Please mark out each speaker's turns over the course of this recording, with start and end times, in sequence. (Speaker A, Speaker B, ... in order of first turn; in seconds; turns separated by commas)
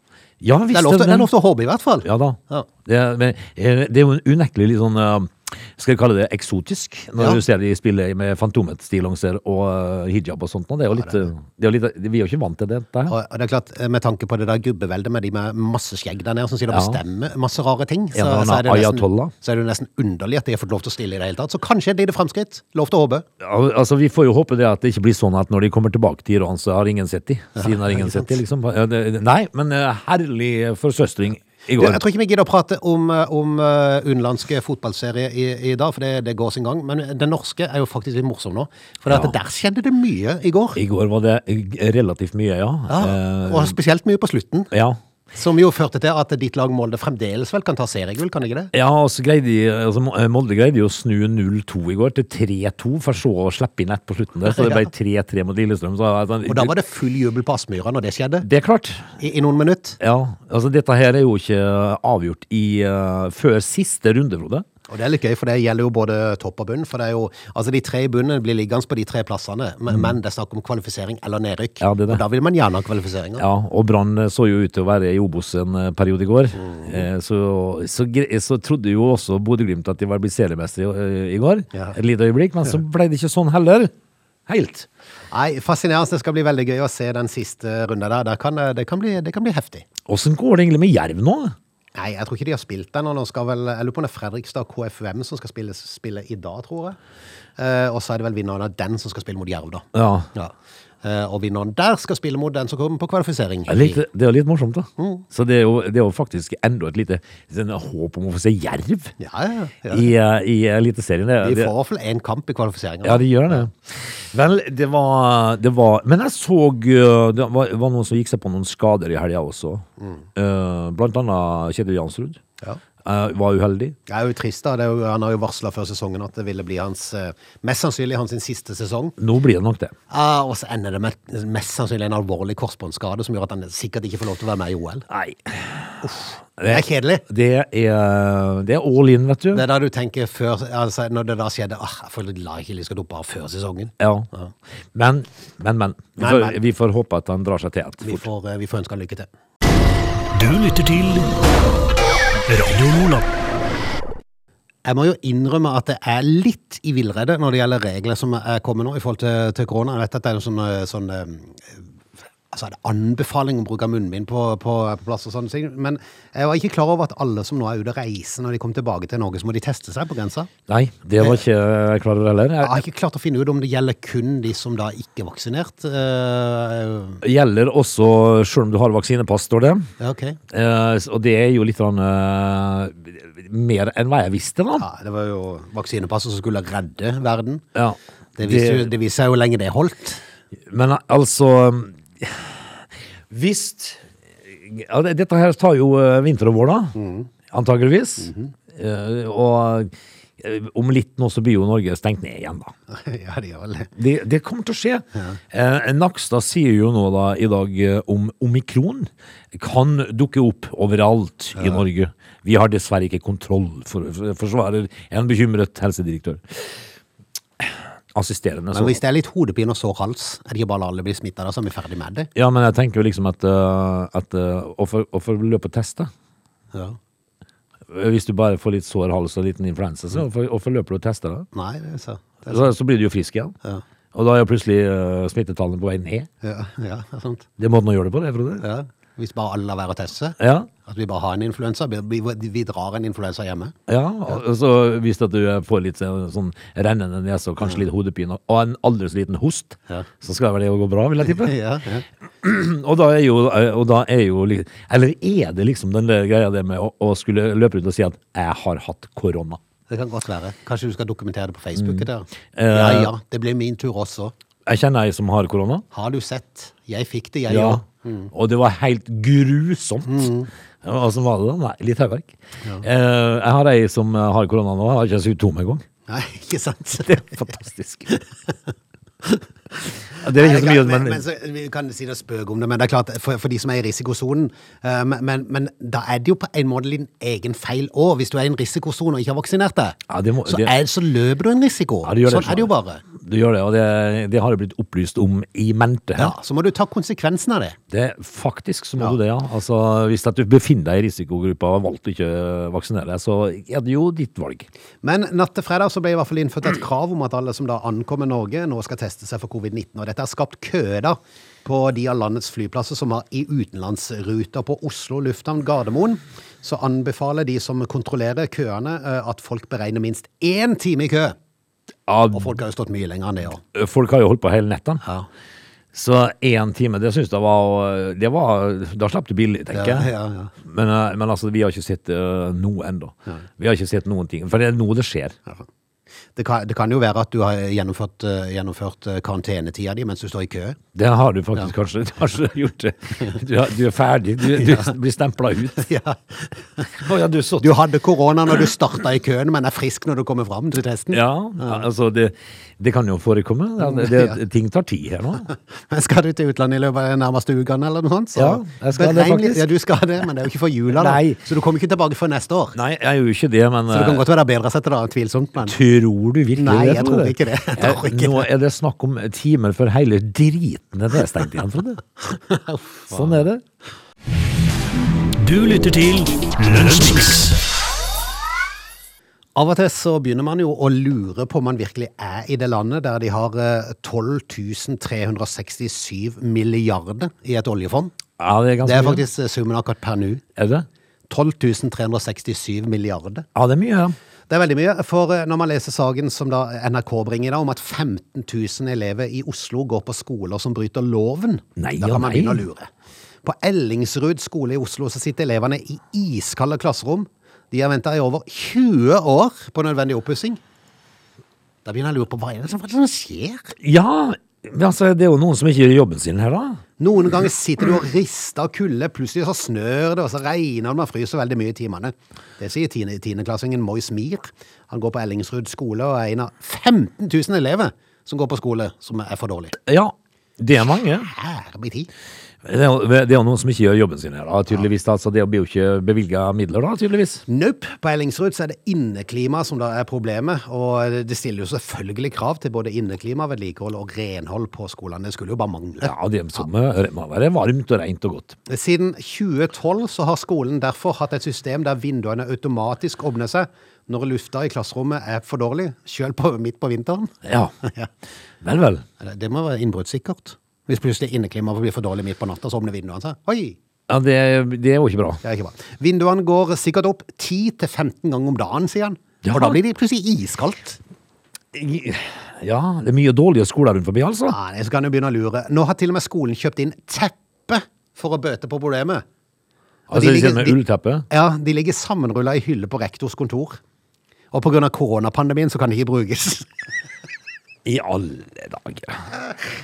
Speaker A: 0.4-1.3, Speaker B: 0.7-2.7, Speaker A: 2.0-13.1, Speaker B: 10.9-11.3, Speaker B: 13.1-23.2, Speaker A: 16.7-17.0, Speaker A: 18.1-19.3, Speaker A: 23.4-32.0, Speaker B: 27.6-28.3, Speaker B: 31.8-40.8, Speaker A: 39.1-39.3, Speaker A: 40.7-43.8, Speaker B: 42.9-44.7, Speaker A: 44.7-45.0, Speaker B: 45.3-48.7, Speaker A: 48.7-56.7, Speaker B: 54.5-54.9, Speaker B: 56.5-58.5, Speaker A: 58.4-59.1, Speaker B: 59.2-60.0, Speaker A: 60.0-64.6, Speaker B: 64.9-73.4, Speaker A: 71.8-72.2, Speaker A: 73.4-83.9, Speaker B: 76.5-77.0, Speaker A: 84.5-84.9, Speaker B: 85.3-89.9, Speaker A: 90.1-91.5, Speaker B: 92.0-97.0, Speaker B: 97.6-104.0, Speaker A: 99.9-100.3, Speaker A: 103.7-109.1, Speaker B: 105.0-105.2, Speaker B: 109.2-110.1, Speaker A: 109.9-111.7, Speaker B: 111.4-113.7, Speaker A: 113.0-122.4, Speaker A: 123.0-124.0, Speaker B: 124.1-129.1, Speaker A: 129.2-129.9, Speaker B: 130.1-135.1, Speaker A: 135.1-139.7, Speaker B: 136.0-137.2, Speaker B: 139.5-144.5, Speaker A: 144.0-144.3, Speaker A: 144.9-148.3, Speaker B: 146.2-146.6, Speaker B: 148.0-149.3, Speaker C: 150.3-151.3, Speaker C: 152.5-153.2, Speaker B: 154.8-161.8, Speaker B: 162.5-170.5, Speaker A: 170.7-172.8, Speaker B: 172.6-177.2, Speaker A: 177.2-179.9, Speaker B: 180.0-180.4, Speaker A: 180.5-184.8, Speaker B: 184.8-187.6, Speaker A: 187.7-188.9, Speaker B: 188.4-190.2, Speaker A: 190.7-192.7, Speaker A: 193.3-196.9, Speaker B: 196.9-197.3, Speaker A: 197.5-202.7, Speaker B: 198.2-198.5, Speaker B: 202.9-203.9, Speaker A: 203.9-216.6, Speaker B: 211.6-211.8, Speaker A: 217.6-219.0, Speaker B: 218.7-222.3, Speaker A: 222.3-226.1, Speaker A: 227.9-231.4, Speaker B: 231.5-232.7, Speaker A: 232.5-233.5, Speaker A: 234.1-236.3, Speaker B: 236.4-237.5, Speaker A: 237.6-238.6, Speaker B: 238.6-243.7, Speaker A: 240.4-240.7, Speaker A: 243.9-251.5, Speaker B: 251.2-252.0, Speaker A: 252.4-259.6, Speaker B: 259.9-264.3, Speaker A: 261.8-263.1, Speaker A: 264.6-265.8, Speaker B: 265.9-268.3, Speaker A: 267.5-270.3, Speaker B: 270.1-270.5, Speaker A: 270.8-275.8, Speaker B: 276.1-277.4, Speaker A: 277.0-278.1, Speaker A: 280.1-281.2, Speaker B: 280.2-293.0, Speaker A: 290.1-290.7, Speaker A: 292.0-296.3, Speaker B: 296.1-297.8, Speaker A: 297.9-304.7, Speaker B: 305.0-321.4, Speaker A: 322.1-322.6, Speaker B: 322.3-323.6, Speaker A: 323.7-325.0, Speaker B: 325.0-325.3, Speaker A: 325.9-330.1, Speaker B: 329.7-330.5, Speaker A: 330.6-335.4, Speaker B: 336.4-340.8, Speaker A: 340.9-345.9, Speaker B: 344.5-344.9, Speaker B: 345.7-347.0, Speaker A: 346.9-347.8, Speaker B: 347.6-351.8, Speaker A: 351.1-355.5, Speaker B: 353.8-354.4, Speaker B: 355.5-362.8, Speaker A: 358.4-359.7, Speaker A: 360.9-361.4, Speaker A: 362.7-364.2, Speaker B: 363.9-365.8, Speaker A: 365.6-372.0, Speaker B: 366.6-368.5, Speaker B: 372.3-373.4, Speaker A: 373.1-373.6, Speaker C: 375.4-377.6, Speaker B: 379.6-388.1, Speaker A: 388.4-389.2, Speaker B: 388.8-390.4, Speaker A: 390.6-390.9, Speaker B: 391.3-393.4, Speaker A: 393.5-394.1, Speaker B: 394.5-402.9, Speaker A: 401.8-402.6, Speaker B: 403.4-410.6, Speaker B: 411.8-413.7, Speaker A: 413.8-416.8, Speaker B: 417.0-429.8, Speaker A: 429.8-431.3, Speaker B: 431.2-432.1, Speaker A: 432.6-437.4, Speaker B: 437.5-446.1, Speaker A: 446.0-448.6, Speaker B: 448.7-458.1, Speaker A: 457.4-457.7, Speaker A: 458.6-459.0, Speaker B: 459.2-463.8, Speaker A: 464.1-465.4, Speaker B: 465.4-471.0, Speaker A: 469.4-469.8, Speaker A: 471.7-474.6, Speaker B: 474.5-479.2, Speaker A: 480.1-481.2, Speaker B: 480.1-483.8, Speaker B: 484.5-486.7, Speaker A: 487.8-489.3, Speaker B: 489.3-489.6